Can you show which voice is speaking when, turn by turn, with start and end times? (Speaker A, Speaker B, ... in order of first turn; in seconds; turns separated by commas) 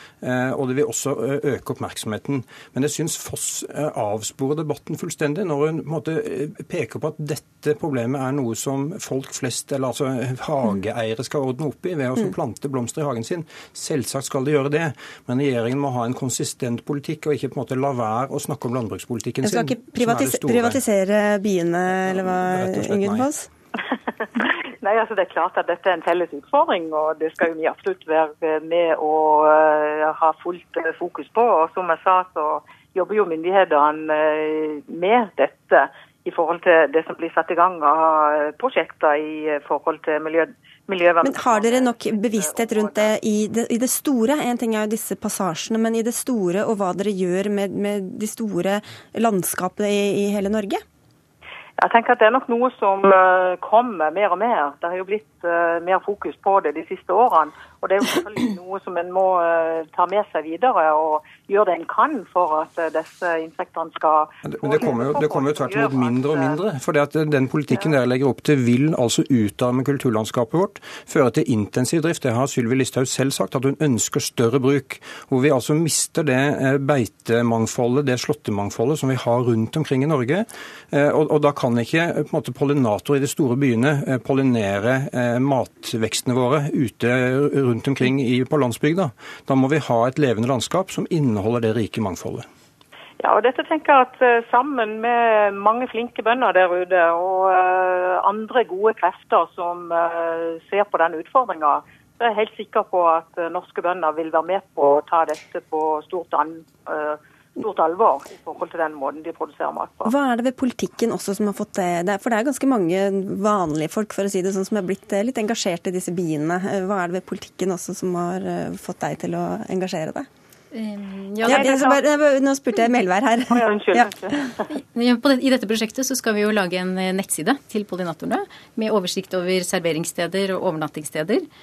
Speaker A: 0.2-20.8, Speaker B: 19.4-23.5, Speaker A: 21.9-23.3, Speaker C: 24.4-43.1, Speaker B: 41.2-50.8, Speaker C: 51.8-66.6, Speaker A: 64.4-92.5, Speaker C: 93.2-110.1, Speaker B: 110.0-120.3, Speaker D: 120.7-121.7, Speaker B: 121.4-124.1, Speaker C: 121.5-122.0, Speaker C: 123.5-124.6, Speaker D: 124.7-131.5